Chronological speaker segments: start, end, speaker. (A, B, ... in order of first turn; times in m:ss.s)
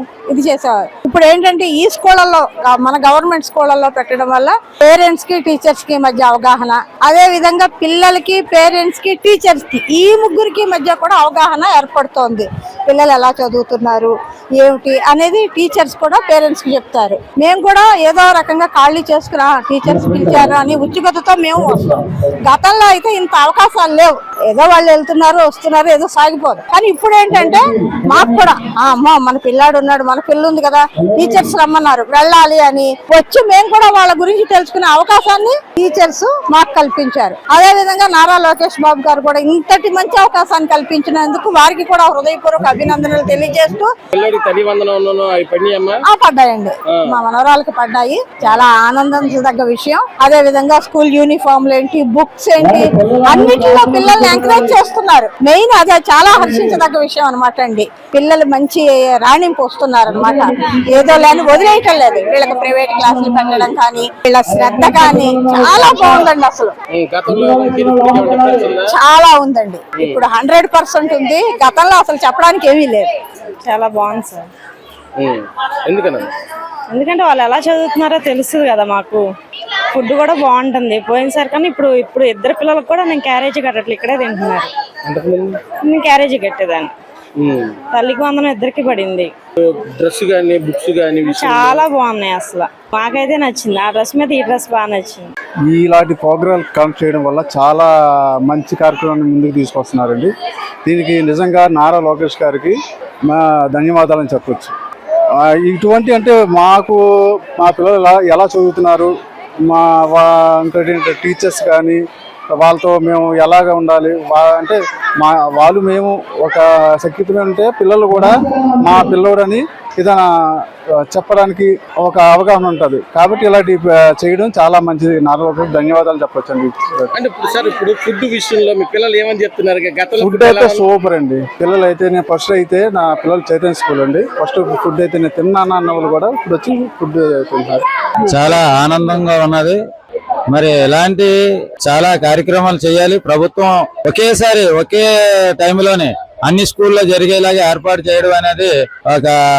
0:00.3-0:43.9 A
0:44.1-0:46.0 B
0:46.1-1:06.8 A
0:46.9-0:47.2 B
1:06.9-1:09.0 B
1:09.0-1:13.0 A
1:10.0-1:10.2 B
1:13.6-1:14.5 C
1:15.2-1:16.3 B
1:16.9-1:19.3 C
1:19.9-1:24.7 C
1:25.0-1:25.6 B
1:25.9-1:26.9 C
1:27.4-1:27.8 B
1:27.9-1:29.3 C
1:29.6-1:31.9 B
1:31.4-1:35.3 C
1:35.7-1:37.9 D
1:38.5-1:40.3 D
1:40.8-1:42.8 D
1:43.3-1:44.7 D
1:45.4-1:47.0 D
1:47.6-1:49.1 D
1:49.7-1:52.0 D
1:52.6-2:00.3 D
2:01.1-2:07.1 D
2:07.1-2:10.9 B
2:10.2-2:18.6 D
2:18.3-2:19.8 E
2:20.5-2:21.3 E
2:21.8-2:25.1 E
2:25.6-2:29.4 E